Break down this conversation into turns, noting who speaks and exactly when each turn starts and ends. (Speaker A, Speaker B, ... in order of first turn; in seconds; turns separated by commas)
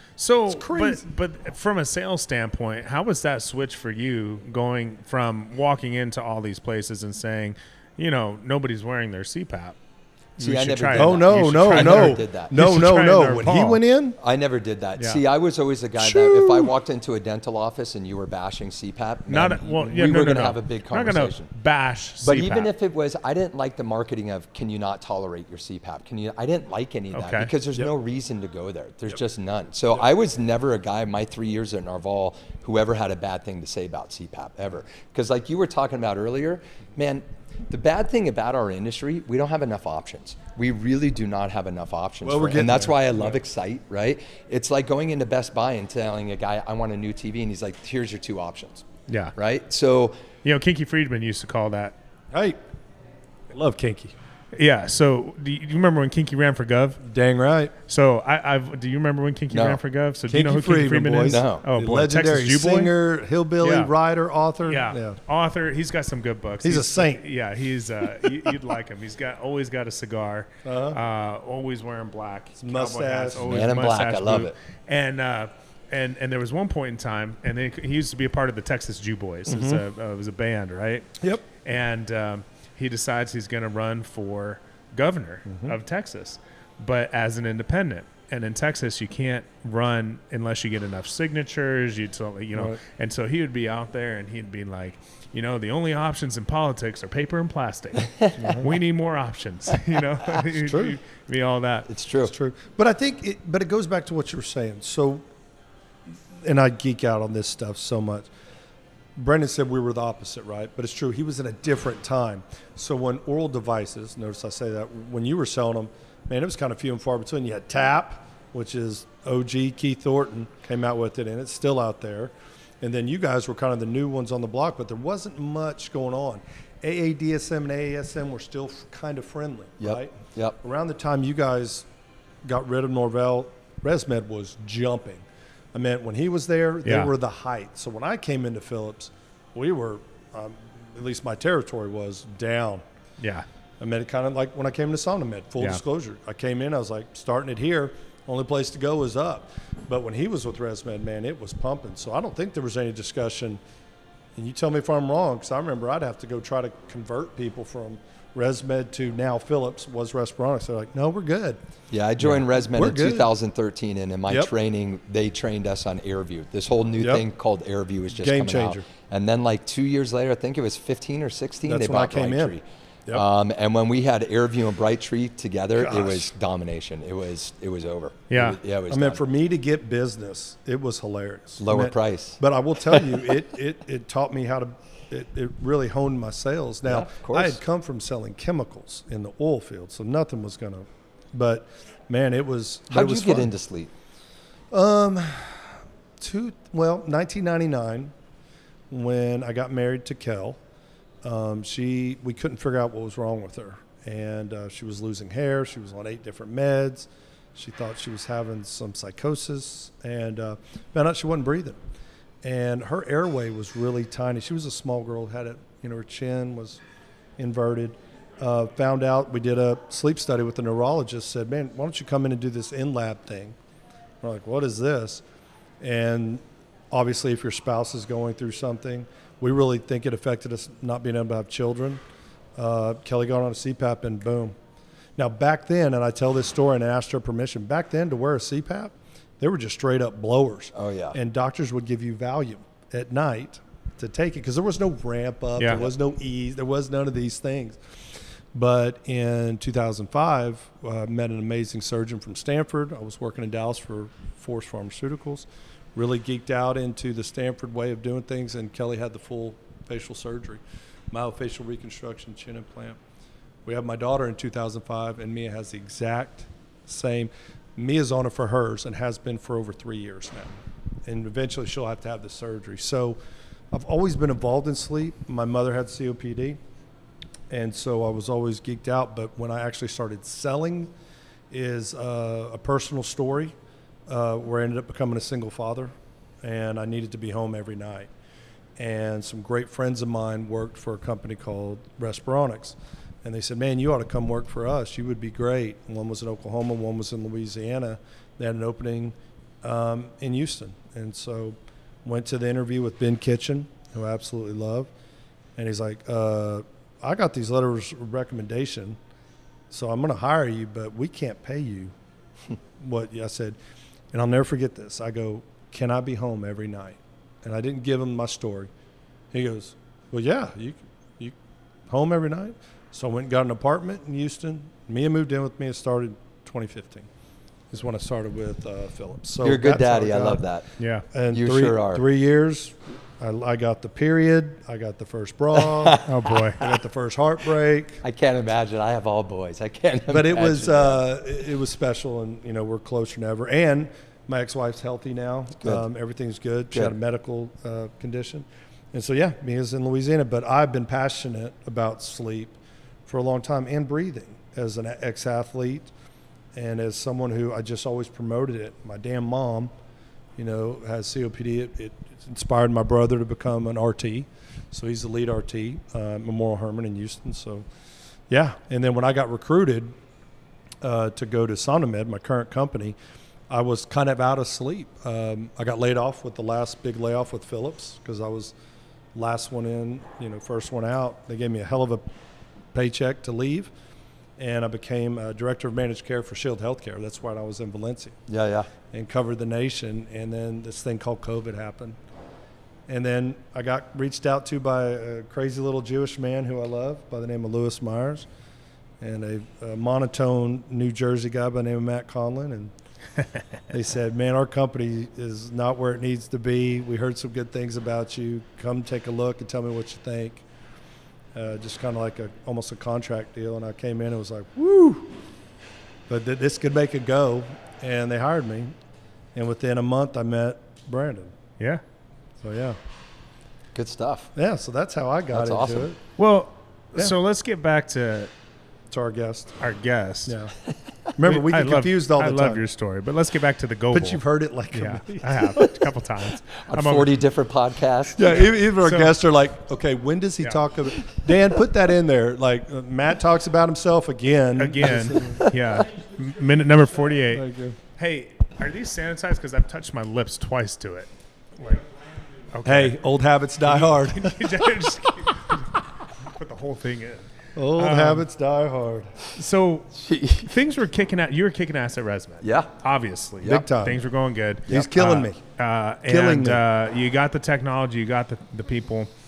Speaker A: 0.2-9.8, Speaker B: 0.5-1.0, Speaker C: 10.4-12.5, Speaker A: 10.4-13.8, Speaker B: 10.9-14.2, Speaker C: 14.2-21.5, Speaker B: 16.0-16.7, Speaker A: 19.3-22.7, Speaker C: 22.2-48.8, Speaker A: 27.1-27.5, Speaker B: 42.2-43.4, Speaker A: 49.1-49.3, Speaker C: 49.4-50.2, Speaker A: 50.4-52.0, Speaker B: 52.3-52.6, Speaker B: 53.5-54.1, Speaker A: 54.5-57.0, Speaker B: 57.0-57.7, Speaker A: 57.9-62.9, Speaker C: 59.5-59.8, Speaker B: 60.3-65.2, Speaker C: 61.3-61.6, Speaker A: 63.6-63.9, Speaker A: 64.7-101.9, Speaker B: 66.6-67.2, Speaker B: 70.6-71.0, Speaker B: 72.6-73.6, Speaker C: 73.4-74.5, Speaker B: 79.5-79.8, Speaker B: 85.5-85.8, Speaker B: 92.5-92.8, Speaker B: 98.3-98.7, Speaker B: 100.6-100.9, Speaker C: 101.9-102.3, Speaker B: 102.2-105.2, Speaker B: 106.4-108.3, Speaker B: 109.2-131.8, Speaker C: 129.8-130.6, Speaker B: 132.4-142.8, Speaker A: 136.8-137.1, Speaker A: 143.2-143.4, Speaker B: 143.8-153.6, Speaker B: 154.3-161.6, Speaker C: 161.9-179.2, Speaker B: 162.6-163.3, Speaker B: 168.1-168.8, Speaker B: 171.7-173.2, Speaker B: 175.8-176.3, Speaker A: 178.3-178.6, Speaker B: 178.9-193.5, Speaker C: 181.6-182.4, Speaker C: 186.8-187.6, Speaker C: 192.9-193.9, Speaker B: 194.7-198.1, Speaker B: 198.9-200.6, Speaker B: 201.2-211.8, Speaker B: 212.4-216.8, Speaker B: 217.4-223.6, Speaker B: 224.2-225.2, Speaker B: 225.8-232.0, Speaker B: 232.6-234.5, Speaker B: 235.2-247.8, Speaker C: 240.7-241.2, Speaker A: 245.6-245.8, Speaker B: 248.5-263.0, Speaker B: 263.6-273.2, Speaker B: 273.7-276.6, Speaker B: 277.5-280.9, Speaker B: 281.5-283.5, Speaker B: 284.1-288.1, Speaker B: 288.8-304.9, Speaker B: 305.6-309.0, Speaker B: 309.7-311.9, Speaker B: 312.8-313.6, Speaker B: 314.1-318.7, Speaker B: 319.3-321.3, Speaker B: 321.9-327.1, Speaker B: 327.7-330.4, Speaker C: 329.4-330.7, Speaker A: 330.8-331.0, Speaker B: 331.1-336.0, Speaker C: 331.3-332.0, Speaker C: 335.7-336.6, Speaker A: 336.0-336.6, Speaker B: 336.6-338.0, Speaker C: 338.0-341.0, Speaker B: 340.1-352.5, Speaker B: 353.1-355.9, Speaker B: 356.5-359.7, Speaker B: 360.4-367.6, Speaker B: 368.3-369.9, Speaker B: 370.8-372.9, Speaker B: 373.5-378.5, Speaker B: 379.1-382.0, Speaker B: 382.7-383.7, Speaker B: 384.4-388.1, Speaker C: 388.3-388.7, Speaker B: 388.9-391.9, Speaker B: 392.9-398.3, Speaker B: 399.0-402.7, Speaker B: 403.7-410.4, Speaker B: 411.3-415.1, Speaker B: 416.1-418.7, Speaker B: 419.3-421.3, Speaker B: 422.4-422.8, Speaker C: 423.7-424.3, Speaker B: 424.3-426.0, Speaker C: 425.3-425.9, Speaker A: 426.2-428.3, Speaker B: 428.9-429.5, Speaker A: 429.6-430.4, Speaker B: 430.2-430.5, Speaker B: 431.1-432.6, Speaker A: 431.2-434.2, Speaker B: 433.9-435.6, Speaker A: 434.7-437.1, Speaker C: 436.6-438.5, Speaker B: 438.1-445.4, Speaker A: 438.8-439.1, Speaker A: 444.6-451.9, Speaker B: 447.3-447.8, Speaker A: 452.5-452.9, Speaker B: 452.6-454.5, Speaker A: 453.6-458.2, Speaker B: 457.5-459.1, Speaker A: 459.3-469.1, Speaker C: 459.9-460.5, Speaker C: 462.4-462.7, Speaker B: 463.4-464.0, Speaker B: 464.7-465.4, Speaker B: 466.1-466.6